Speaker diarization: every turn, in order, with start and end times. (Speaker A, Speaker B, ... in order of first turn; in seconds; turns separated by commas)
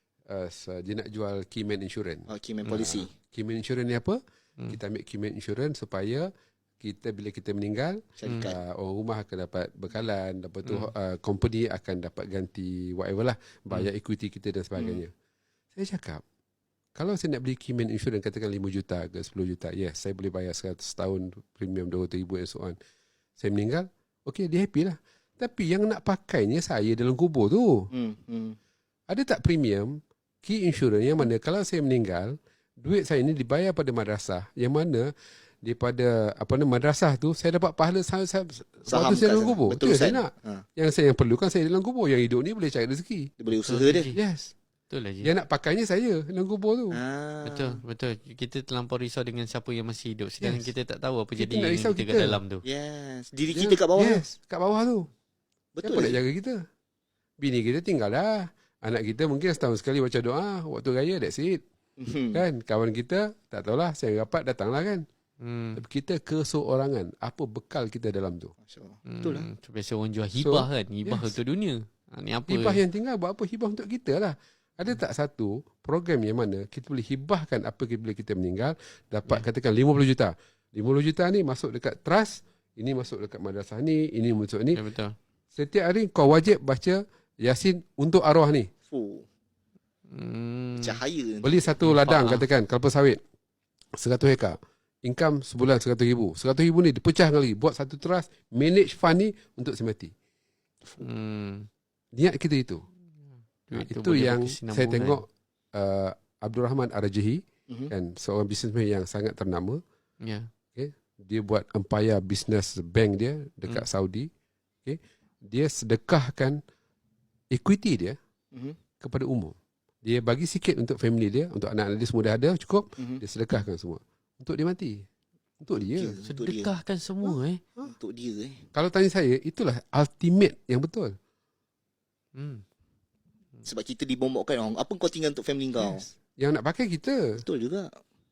Speaker A: 0.3-6.3, Speaker B: 2.3-3.1, Speaker A: 6.8-15.1, Speaker B: 8.2-8.6, Speaker B: 14.8-15.0, Speaker A: 15.7-16.2, Speaker A: 16.9-22.8, Speaker A: 23.4-27.9, Speaker B: 27.9-28.6, Speaker A: 29.1-35.1, Speaker A: 35.6-43.3, Speaker B: 38.9-40.6, Speaker B: 43.4-44.1, Speaker C: 43.6-44.2, Speaker A: 44.1-44.5, Speaker C: 44.9-45.3, Speaker A: 45.2-47.0, Speaker B: 46.9-47.8, Speaker C: 47.5-52.6, Speaker A: 50.4-50.7, Speaker A: 51.4-52.4, Speaker B: 52.6-54.3, Speaker A: 53.5-55.1, Speaker B: 55.7-56.2, Speaker A: 55.8-56.6, Speaker A: 57.4-61.6, Speaker B: 62.0-62.4, Speaker A: 62.3-65.0, Speaker C: 65.4-65.8, Speaker A: 65.8-68.5, Speaker B: 68.6-69.5, Speaker C: 69.1-72.8, Speaker A: 70.4-71.3, Speaker A: 72.5-84.8, Speaker C: 84.7-85.1, Speaker A: 85.5-88.7, Speaker B: 88.9-89.2, Speaker C: 90.1-91.0, Speaker B: 90.8-91.6, Speaker A: 91.4-93.2, Speaker C: 91.8-92.5, Speaker A: 94.0-100.1, Speaker C: 101.0-101.7, Speaker A: 102.2-102.8, Speaker C: 103.7-105.2, Speaker A: 103.7-109.8, Speaker C: 110.2-110.5, Speaker A: 110.7-114.3, Speaker A: 114.8-116.6, Speaker A: 117.5-118.2, Speaker B: 118.5-118.8, Speaker A: 119.0-125.0, Speaker A: 125.6-126.2, Speaker B: 125.9-126.7, Speaker C: 126.2-127.6, Speaker A: 127.2-127.9, Speaker B: 127.8-128.7, Speaker A: 128.7-131.1, Speaker C: 132.3-132.6, Speaker B: 133.6-136.1, Speaker A: 136.4-137.4, Speaker B: 137.4-137.9